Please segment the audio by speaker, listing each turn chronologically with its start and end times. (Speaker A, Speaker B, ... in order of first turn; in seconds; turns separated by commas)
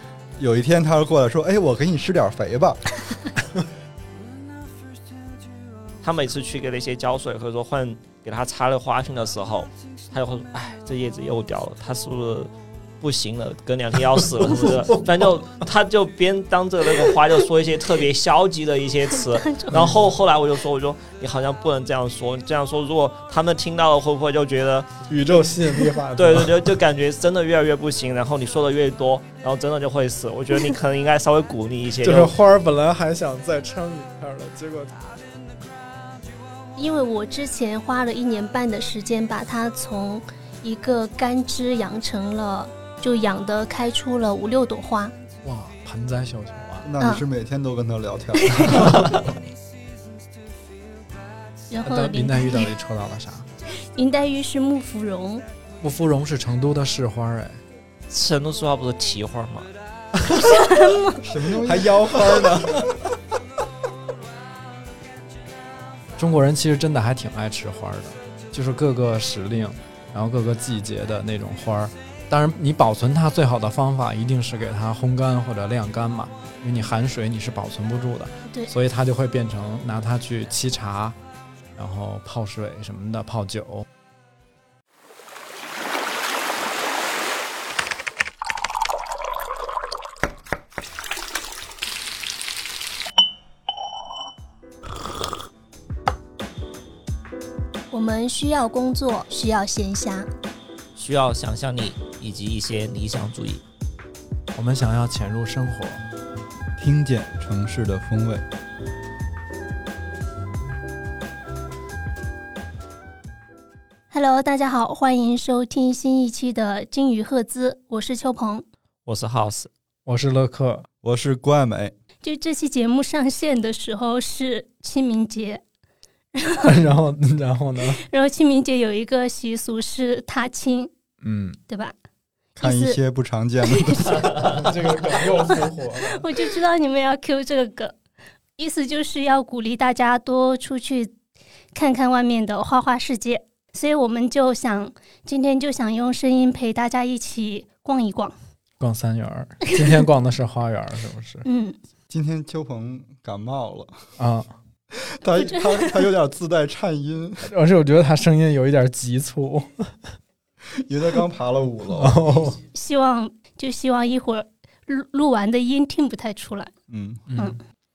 Speaker A: 0.4-3.0, Speaker B: 6.0-25.0, Speaker C: 14.4-15.1, Speaker D: 19.3-19.7, Speaker C: 19.7-20.0, Speaker C: 25.1-26.8, Speaker B: 26.1-32.3, Speaker C: 32.0-35.1, Speaker D: 36.8-45.1, Speaker C: 45.4-46.9, Speaker A: 46.8-49.3, Speaker D: 48.5-48.9, Speaker D: 51.7-52.7, Speaker C: 51.8-53.5, Speaker D: 53.7-55.4, Speaker C: 55.8-57.6, Speaker B: 58.1-59.7, Speaker D: 60.4-61.2, Speaker A: 61.2-62.9, Speaker C: 61.6-63.0, Speaker C: 66.2-81.2, Speaker C: 81.8-83.9, Speaker D: 97.9-100.3, Speaker B: 101.0-103.6, Speaker C: 104.5-106.0, Speaker A: 106.8-108.4, Speaker D: 114.1-118.6, Speaker B: 119.0-119.7, Speaker C: 120.0-120.9, Speaker A: 121.0-121.9, Speaker D: 122.2-125.6, Speaker D: 126.3-126.7, Speaker C: 126.6-128.0, Speaker D: 128.0-130.9, Speaker C: 131.2-131.6, Speaker D: 131.7-131.9, Speaker A: 132.6-134.7, Speaker D: 132.6-133.0, Speaker D: 133.6-134.4, Speaker C: 134.5-136.3, Speaker D: 135.2-138.0, Speaker D: 138.6-141.1, Speaker D: 141.7-148.3, Speaker C: 148.8-151.4, Speaker D: 151.4-151.8, Speaker A: 152.1-154.0, Speaker C: 154.2-154.5, Speaker A: 154.9-157.5, Speaker D: 155.4-156.0, Speaker C: 157.4-160.1, Speaker A: 160.8-162.2, Speaker C: 161.9-162.6, Speaker D: 162.7-166.7, Speaker A: 166.9-167.2, Speaker C: 167.3-167.6